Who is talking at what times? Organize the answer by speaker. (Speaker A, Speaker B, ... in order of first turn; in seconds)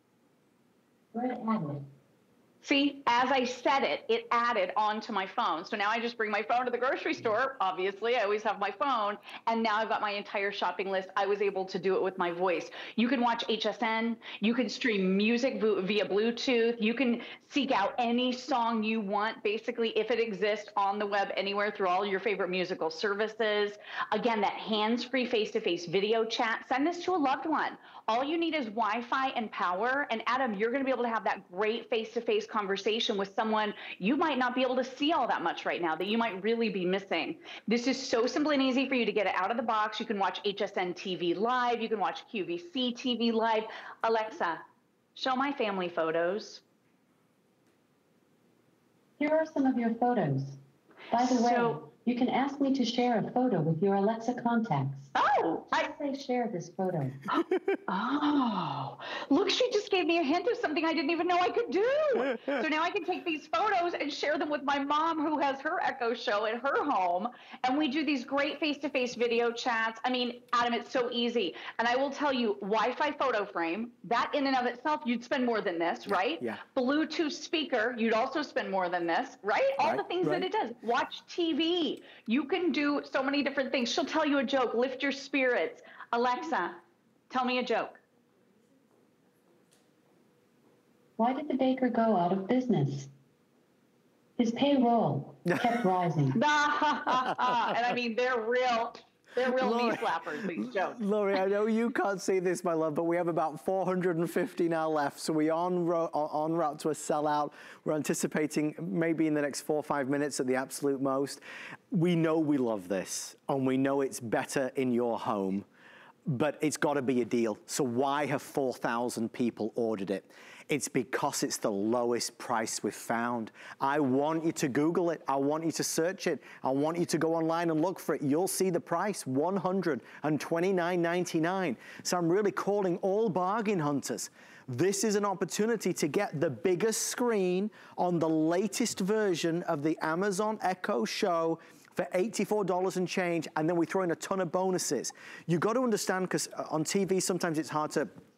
Speaker A: 1.1-1.8, 49.2-50.6, 51.1-55.1, 55.7-57.3, 91.2-93.1, 94.4-96.4
Speaker B: 2.6-44.6, 45.1-46.6, 51.4-51.7, 55.1-55.8, 57.3-86.8, 87.3-88.0, 96.3-101.0
Speaker C: 76.1-76.6, 79.8-80.5, 99.5-115.7, 116.3-148.1